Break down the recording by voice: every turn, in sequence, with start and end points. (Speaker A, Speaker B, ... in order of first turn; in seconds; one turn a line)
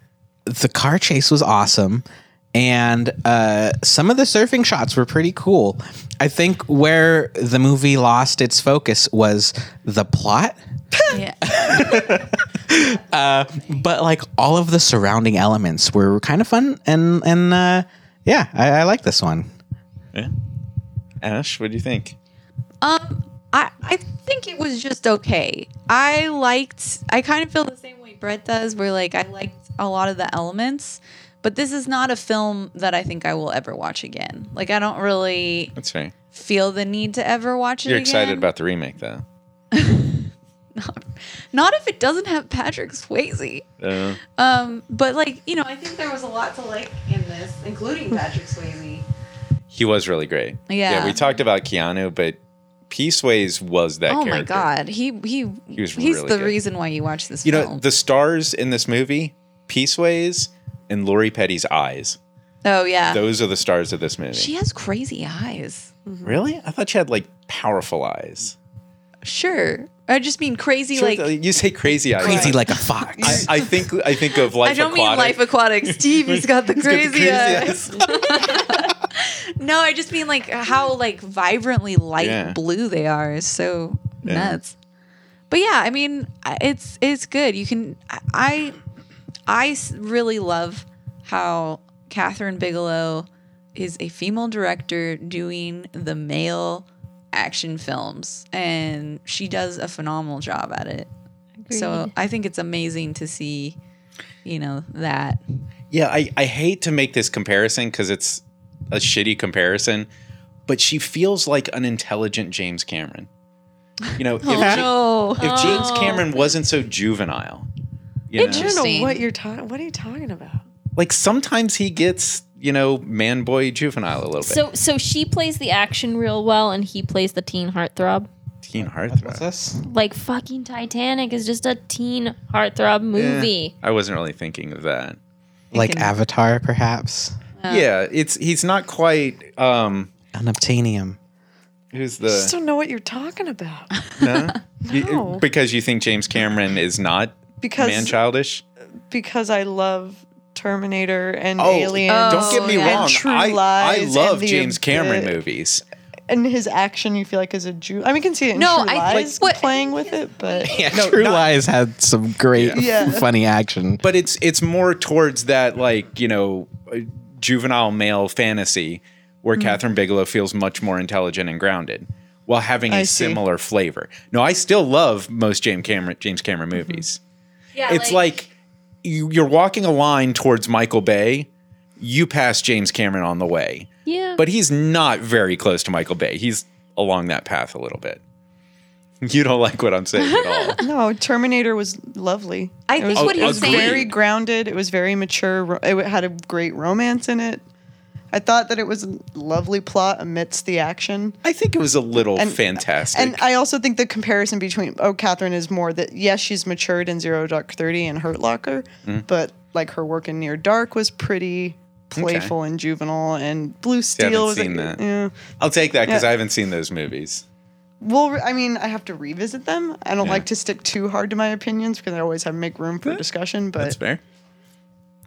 Speaker A: 0.5-10.6
Speaker B: 11.1-13.8
Speaker A: 11.4-19.5
Speaker C: 21.2-22.1
Speaker B: 22.8-35.7
Speaker C: 35.8-36.1
Speaker B: 36.3-38.5
Speaker C: 37.9-39.2
Speaker B: 39.7-43.7
Speaker C: 43.8-44.2
Speaker B: 44.3-49.0
Speaker C: 49.7-54.7
Speaker B: 50.7-51.2
Speaker B: 54.1-57.8
Speaker C: 55.7-56.6
Speaker C: 57.4-62.2
Speaker B: 62.6-63.2
Speaker C: 63.1-64.5
Speaker B: 64.3-65.9
Speaker D: 66.0-66.4
Speaker C: 66.2-68.5
Speaker B: 69.2-71.3
Speaker C: 70.9-72.6
Speaker A: 72.2-73.5
Speaker B: 72.2-73.7
Speaker C: 73.2-78.1
Speaker B: 74.5-84.7
Speaker C: 82.2-82.6
Speaker C: 84.2-84.6
Speaker B: 85.5-88.8
Speaker B: 89.5-101.1
Speaker E: 101.6-102.1
Speaker B: 101.7-103.8
Speaker B: 104.4-105.4
Speaker C: 105.9-110.1
Speaker C: 110.7-113.3
Speaker C: 114.2-117.7
Speaker B: 114.4-116.2
Speaker A: 114.5-114.8
Speaker E: 115.4-116.5
Speaker C: 118.3-118.8
Speaker B: 118.4-119.2
Speaker D: 118.4-120.6
Speaker C: 121.0-124.6
Speaker E: 124.4-128.3
Speaker C: 128.6-129.4
Speaker A: 128.8-129.8
Speaker E: 129.8-133.7
Speaker C: 133.1-135.2
Speaker B: 135.7-136.1
Speaker A: 135.7-137.4
Speaker B: 137.6-137.9
Speaker C: 137.7-140.1
Speaker A: 140.3-141.2
Speaker C: 141.9-142.5
Speaker D: 142.2-143.9
Speaker C: 144.2-148.6
Speaker B: 144.2-144.4
Speaker D: 144.8-145.4
Speaker D: 147.6-148.2
Speaker D: 149.1-155.4
Speaker C: 151.6-155.8
Speaker B: 152.1-153.1
Speaker D: 156.3-160.8
Speaker B: 158.5-160.8
Speaker A: 160.6-164.0
Speaker C: 160.8-161.5
Speaker C: 162.5-162.8
Speaker D: 162.7-163.2
Speaker C: 164.0-177.2
Speaker D: 172.9-173.4
Speaker D: 176.8-177.0
Speaker B: 177.7-178.3
Speaker C: 177.9-178.5
Speaker C: 179.0-181.5
Speaker C: 182.0-188.2
Speaker E: 184.1-184.4
Speaker C: 189.2-190.8
Speaker B: 190.2-190.8
Speaker D: 190.8-197.6
Speaker B: 192.9-194.1
Speaker C: 193.1-194.1
Speaker D: 198.3-201.4
Speaker C: 201.4-203.4
Speaker D: 202.3-215.3
Speaker C: 212.1-212.5
Speaker C: 214.1-215.0
Speaker C: 215.6-217.4
Speaker D: 218.0-223.9
Speaker C: 220.2-220.4
Speaker C: 223.8-224.2